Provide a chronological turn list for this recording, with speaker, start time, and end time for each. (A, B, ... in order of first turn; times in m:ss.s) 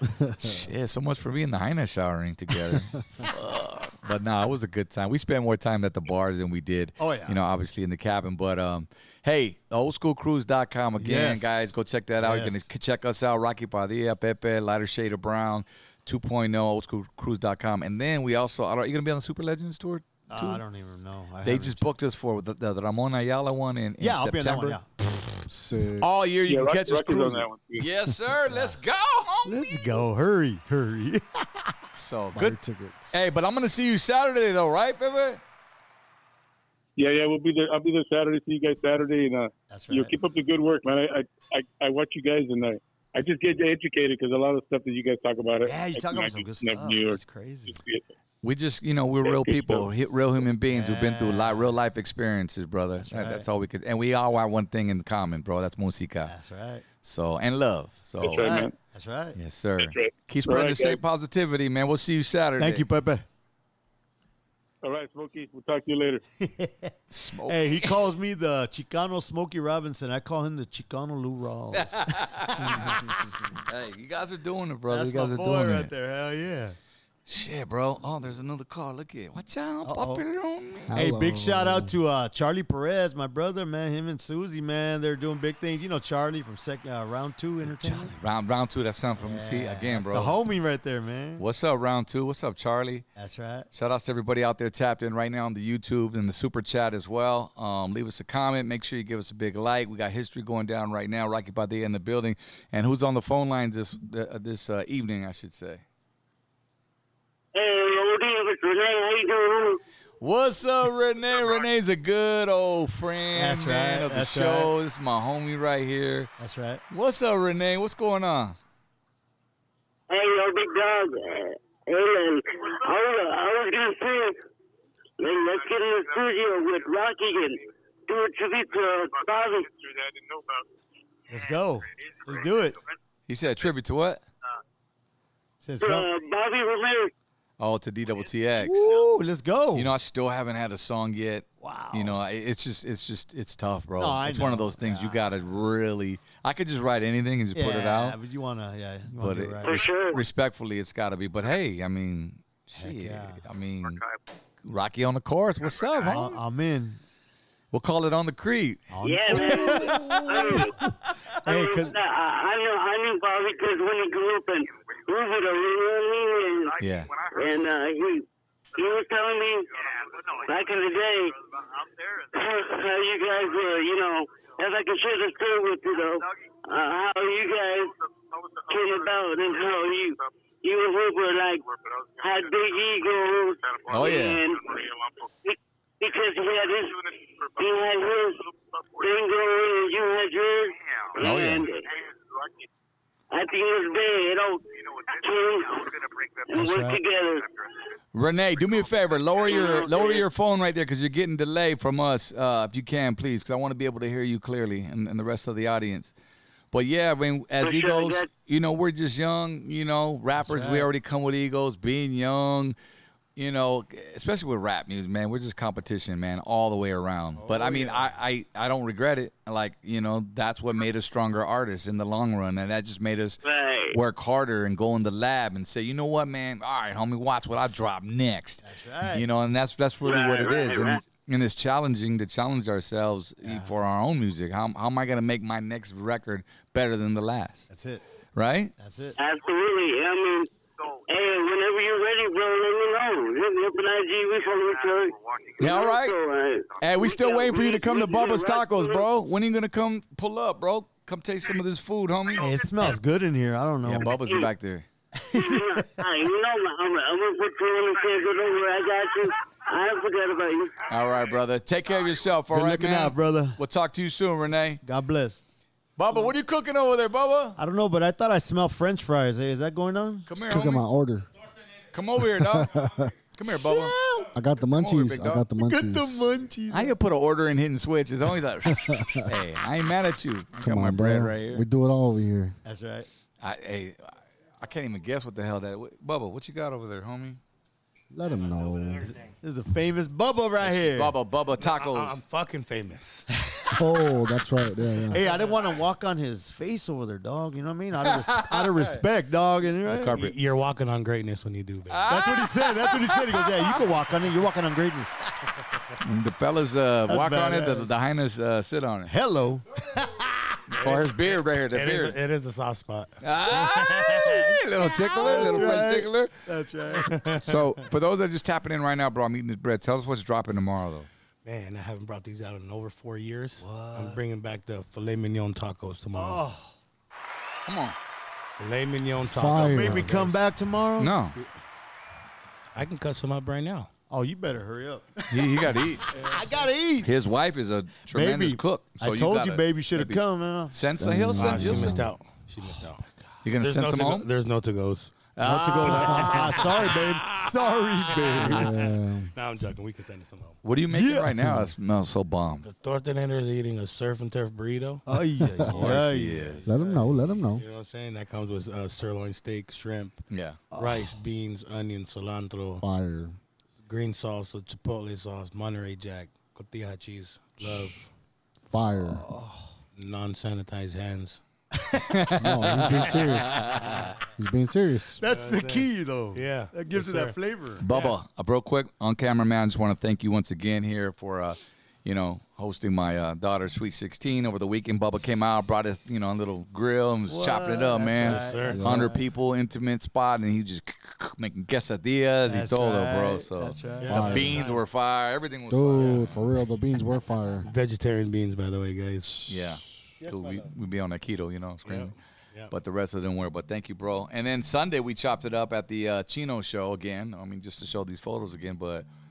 0:00.2-0:00.5 A
0:00.4-0:20.6 B
0:07.0-0:07.4 C
0:11.0-0:12.7 C
0:20.3-0:21.8 C
0:21.4-0:24.8 B
0:24.0-0:24.9 C
0:25.5-0:26.1 A
0:26.0-0:30.0 B
0:26.5-0:27.8 D
0:28.5-0:28.8 C
0:29.4-0:31.7 C
0:31.9-0:32.6 B
0:32.3-0:33.2 A
0:33.1-0:35.4 B
0:37.0-0:48.1 D
0:39.7-0:40.2 C
0:45.6-0:47.8 C
0:48.4-0:56.3 B
0:49.2-0:49.9 D
0:50.7-0:51.8 C
0:52.9-0:53.5 C
0:56.2-0:56.8 C
0:57.0-0:58.6 B
0:58.2-0:58.7 D
0:58.3-0:59.4 C
0:59.3-1:02.8 B
0:59.8-1:01.0 D
1:02.6-1:03.2 C
1:04.8-1:06.2 D
1:06.4-1:13.1 C
1:07.1-1:08.0 B
1:11.7-1:12.9 B
1:13.7-1:15.9 B
1:14.9-1:16.8 C
1:17.2-1:21.0 B
1:19.8-1:20.2 C
1:20.9-1:21.9 A
1:20.9-1:28.1 C
1:27.6-1:30.4 B
1:29.2-1:31.4 C
1:31.4-1:33.0 B
1:33.1-1:33.7 C
1:33.7-1:45.8 B
1:47.5-1:49.8 E
1:50.2-1:56.3 B
1:53.3-1:54.7 C
1:56.4-1:56.8 C
1:56.9-1:58.6 B
2:00.1-2:04.4 E
2:05.2-2:09.7 E
2:09.5-2:10.6 D
2:11.3-2:12.8 C
2:13.3-2:14.2 B
2:15.6-2:16.1 C
2:15.8-2:17.1 E
2:17.6-2:18.9 B
2:18.6-2:19.9 C
2:19.7-2:28.2 B
2:21.6-2:22.2 C
2:24.0-2:25.3 C
2:27.5-2:29.9 C
2:29.2-2:34.0 B
2:29.6-2:30.2 E
2:32.8-2:33.4 C
2:34.6-2:36.4 B
2:36.0-2:37.0 C
2:37.7-2:40.2 B
2:38.9-2:40.9 C
2:39.0-2:40.7 E
2:41.4-2:42.0 C
2:41.4-2:51.4 E
2:46.8-2:47.1 B
2:52.3-2:57.9 E
2:58.3-2:59.1 D
2:58.7-3:01.6 E
3:01.8-3:02.5 D
3:02.2-3:04.6 E
3:03.7-3:04.2 D
3:03.9-3:04.4 B
3:04.7-3:05.2 D
3:05.4-3:08.4 E
3:07.4-3:07.7 D
3:09.0-3:11.9 E
3:11.2-3:11.7 B
3:13.3-3:17.5 E
3:16.5-3:17.0 C
3:18.1-3:26.1 B
3:19.4-3:20.2 E
3:26.7-3:32.8 B
3:27.6-3:28.3 E
3:30.3-3:30.9 C
3:33.4-3:57.7 B
3:37.6-3:38.0 C
3:43.4-3:44.0 E
3:48.6-3:49.2 C
3:50.0-3:51.0 E
3:53.4-3:53.7 C
3:57.7-3:58.0 C
3:58.3-3:58.7 B
3:58.8-3:59.1 C
3:59.2-4:00.5 E
4:01.1-4:09.1 E
4:05.6-4:06.2 B
4:06.8-4:12.9 B
4:12.4-4:14.2 C
4:13.8-4:14.8 B
4:14.2-4:14.5 E
4:15.2-4:15.9 C
4:15.4-4:20.9 E
4:20.9-4:24.8 B
4:22.5-4:23.6 C
4:24.8-4:25.4 C
4:26.0-4:27.6 B
4:27.6-4:30.3 C
4:30.3-4:30.8 B
4:30.3-4:31.3 A
4:31.9-4:32.8 B
4:32.2-4:33.1 A
4:33.4-4:35.5 B
4:33.5-4:34.2 C
4:34.3-4:36.3 A
4:35.6-4:37.0 C
4:36.7-4:41.6 B
4:38.7-4:39.3 A
4:40.6-4:42.6 A
4:42.6-4:43.1 C
4:43.4-4:47.4 B
4:48.1-4:49.1 A
4:49.0-4:51.1 C
4:50.6-4:52.2 B
4:51.6-4:53.2 F
4:53.7-4:55.2 A
4:55.1-5:00.3 C
4:58.1-4:59.0 B
4:59.9-5:02.1 F
5:01.9-5:03.8 B
5:02.1-5:05.4 C
5:06.0-5:09.1 B
5:07.1-5:07.9 C
5:09.0-5:10.6 C
5:10.7-5:13.3 F
5:10.8-5:12.2 B
5:13.2-5:16.3 B
5:13.6-5:17.1 C
5:15.3-5:15.8 F
5:17.0-5:17.9 F
5:17.4-5:21.1 B
5:21.4-5:26.4 F
5:23.6-5:24.2 C
5:26.1-5:26.7 C
5:27.7-5:28.0 B
5:28.6-5:30.4 F
5:29.2-5:30.2 A
5:29.6-5:31.1 C
5:31.0-5:31.4 B
5:32.7-5:33.9 F
5:34.1-5:37.1 C
5:35.3-5:36.2 B
5:36.1-5:36.4 F
5:37.0-5:42.0 B
5:38.1-5:40.8 C
5:41.0-5:42.1 A
5:41.3-5:50.6 F
5:43.4-5:44.3 B
5:45.4-5:46.7 B
5:45.4-5:48.7 C
5:48.3-5:49.3 A
5:50.6-5:52.6 B
5:50.9-5:51.4 C
5:52.6-5:55.2 F
5:55.1-5:56.5 C
5:55.6-5:55.9 A
5:55.7-6:00.2 F
5:55.7-5:56.7 B
5:56.7-5:57.6 A
6:00.3-6:00.6 B
6:00.7-6:01.1 C
6:00.8-6:02.8 F
6:02.8-6:03.4 A
6:03.8-6:08.1 F
6:08.6-6:09.2 A
6:09.1-6:09.7 C
6:09.9-6:11.4 F
6:12.1-6:14.1 B
6:12.4-6:15.2 A
6:15.2-6:17.8 C
6:15.2-6:17.4 F
6:17.8-6:36.4 B
6:17.9-6:18.1 F
6:27.3-6:29.1 C
6:28.2-6:29.2 F
6:28.7-6:29.1 A
6:32.4-6:34.4 C
6:34.0-6:34.8 F
6:34.0-6:34.6 A
6:35.7-6:37.7 A
6:35.9-6:36.3 F
6:37.6-6:39.4 F
6:39.4-6:39.7 A
6:39.4-6:42.1 B
6:40.2-6:40.7 C
6:41.8-6:42.7 F
6:42.7-6:49.1 B